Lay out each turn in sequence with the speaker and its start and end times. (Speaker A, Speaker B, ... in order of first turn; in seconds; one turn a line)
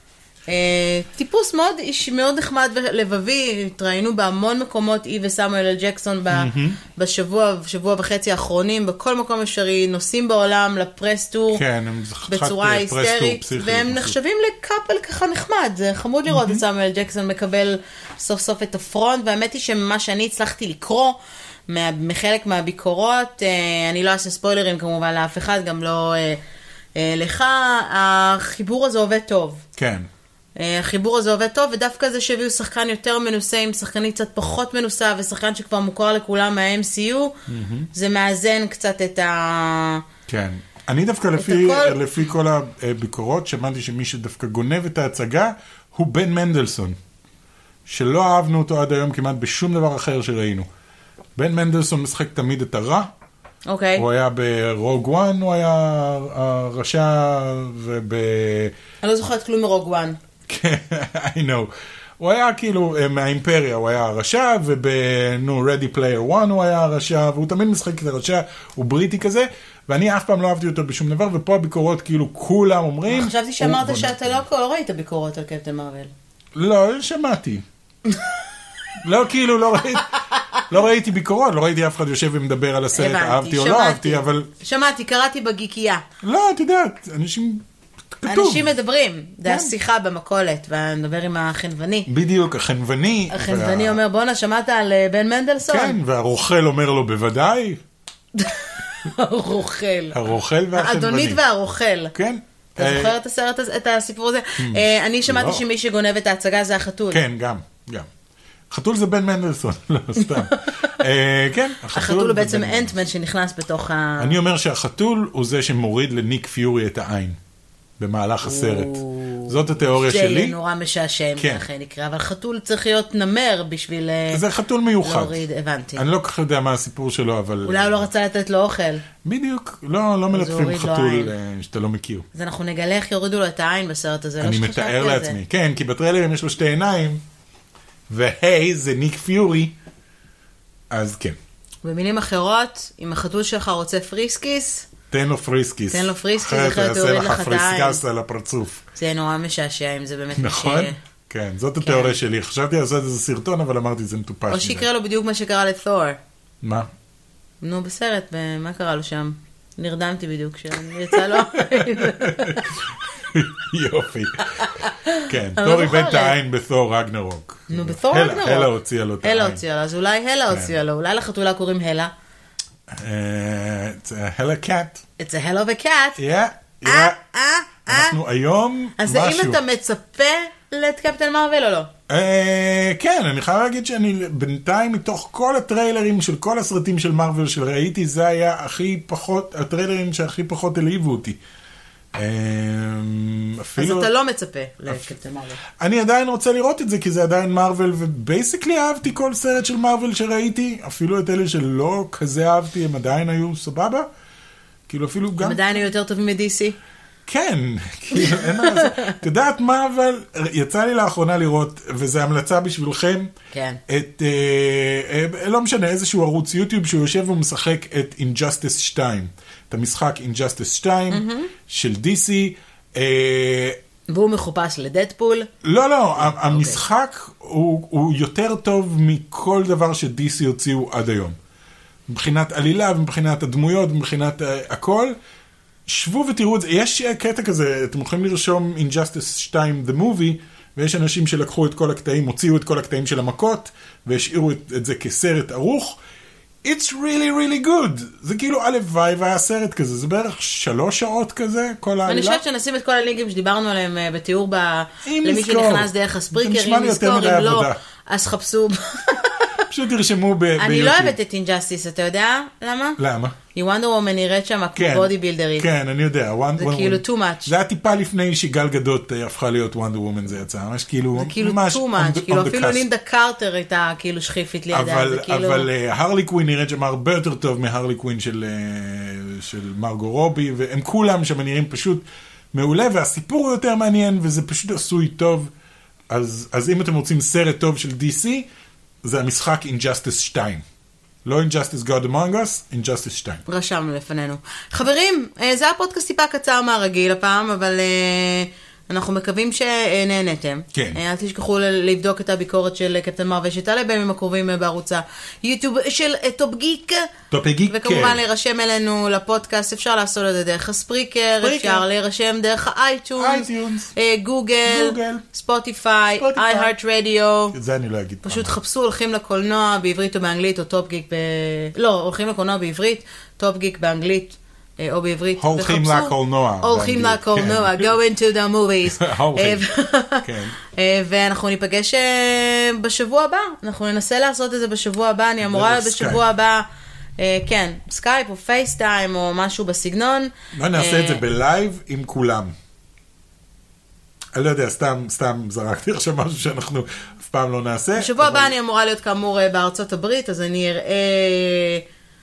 Speaker A: 0.5-11.6
Speaker B: 6.3-6.8
Speaker B: 11.5-14.2
Speaker A: 12.3-21.2
Speaker B: 16.3-16.6
Speaker A: 21.7-26.4
Speaker A: 27.0-29.6
Speaker B: 29.8-30.1
Speaker A: 30.6-37.4
Speaker B: 37.5-37.9
Speaker A: 37.9-40.0
Speaker B: 40.3-47.0
Speaker A: 41.4-42.0
Speaker B: 47.9-50.7
Speaker B: 51.4-53.1
Speaker A: 53.7-54.0
Speaker B: 54.0-58.7
Speaker A: 59.0-60.2
Speaker B: 60.5-74.4
Speaker A: 73.1-76.1
Speaker B: 76.5-77.6
Speaker A: 78.1-78.4
Speaker B: 79.0-80.2
Speaker A: 80.1-80.6
Speaker B: 80.7-84.5
Speaker A: 82.9-86.0
Speaker B: 86.2-87.7
Speaker B: 88.2-88.7
Speaker A: 88.3-92.1
Speaker B: 89.5-89.7
Speaker B: 92.1-94.0
Speaker A: 93.3-96.0
Speaker B: 95.7-97.8
Speaker A: 98.3-102.1
Speaker B: 100.1-101.4
Speaker B: 102.1-103.2
Speaker A: 102.8-107.2
Speaker B: 104.6-105.6
Speaker B: 107.1-108.1
Speaker B: 108.7-113.0
Speaker A: 110.2-111.0
Speaker A: 111.9-114.4
Speaker B: 114.2-117.4
Speaker B: 118.0-120.6
Speaker A: 118.4-124.4
Speaker B: 121.4-121.7
Speaker B: 124.3-125.4
Speaker A: 125.0-126.0
Speaker B: 126.0-128.1
Speaker A: 127.7-129.1
Speaker B: 129.2-132.3
Speaker A: 130.3-131.3
Speaker A: 132.3-135.4
Speaker B: 134.4-137.2
Speaker B: 138.1-139.8
Speaker B: 140.9-141.4
Speaker A: 141.8-144.9
Speaker B: 145.1-148.8
Speaker A: 145.9-148.0
Speaker A: 148.9-151.0
Speaker B: 150.3-154.9
Speaker A: 151.8-152.2
Speaker A: 154.5-156.2
Speaker B: 156.6-156.9
Speaker A: 157.6-162.7
Speaker B: 161.1-169.6
Speaker A: 164.7-166.4
Speaker A: 167.7-172.1
Speaker B: 170.5-170.8
Speaker B: 172.9-175.0
Speaker A: 175.2-176.2
Speaker B: 176.2-177.2
Speaker A: 176.8-178.2
Speaker B: 177.9-179.6
Speaker A: 179.0-181.9
Speaker B: 182.1-191.4
Speaker B: 192.2-194.1
Speaker A: 193.8-195.6
Speaker B: 195.8-204.1
Speaker B: 204.9-205.6
Speaker A: 205.4-206.8
Speaker B: 207.3-213.3
Speaker A: 208.1-209.2
Speaker A: 213.5-213.8
Speaker B: 213.9-223.8
Speaker A: 221.1-221.5
Speaker A: 224.1-225.5
Speaker B: 225.6-231.4
Speaker A: 226.2-226.8
Speaker B: 232.1-235.2
Speaker B: 235.9-246.0
Speaker B: 246.6-252.4
Speaker A: 252.1-259.6
Speaker B: 255.1-257.8
Speaker B: 259.7-261.2
Speaker A: 260.6-263.0
Speaker B: 263.0-263.4
Speaker A: 263.6-265.7
Speaker B: 264.8-272.9
Speaker A: 266.6-267.5
Speaker A: 271.2-275.7
Speaker B: 274.7-285.5
Speaker B: 286.1-288.5
Speaker B: 289.0-290.6
Speaker B: 291.2-293.4
Speaker A: 293.5-307.1
Speaker B: 300.7-301.0
Speaker B: 307.3-308.2
Speaker A: 307.7-317.6
Speaker B: 311.4-311.9
Speaker B: 313.2-313.9
Speaker B: 314.6-315.2
Speaker B: 316.2-316.7
Speaker B: 317.5-318.5
Speaker A: 318.2-336.7
Speaker B: 325.4-327.9
Speaker B: 328.9-329.6
Speaker B: 330.2-330.6
Speaker B: 335.4-336.2
Speaker A: 337.2-341.2
Speaker B: 340.6-342.5
Speaker B: 344.4-348.5
Speaker A: 348.0-351.8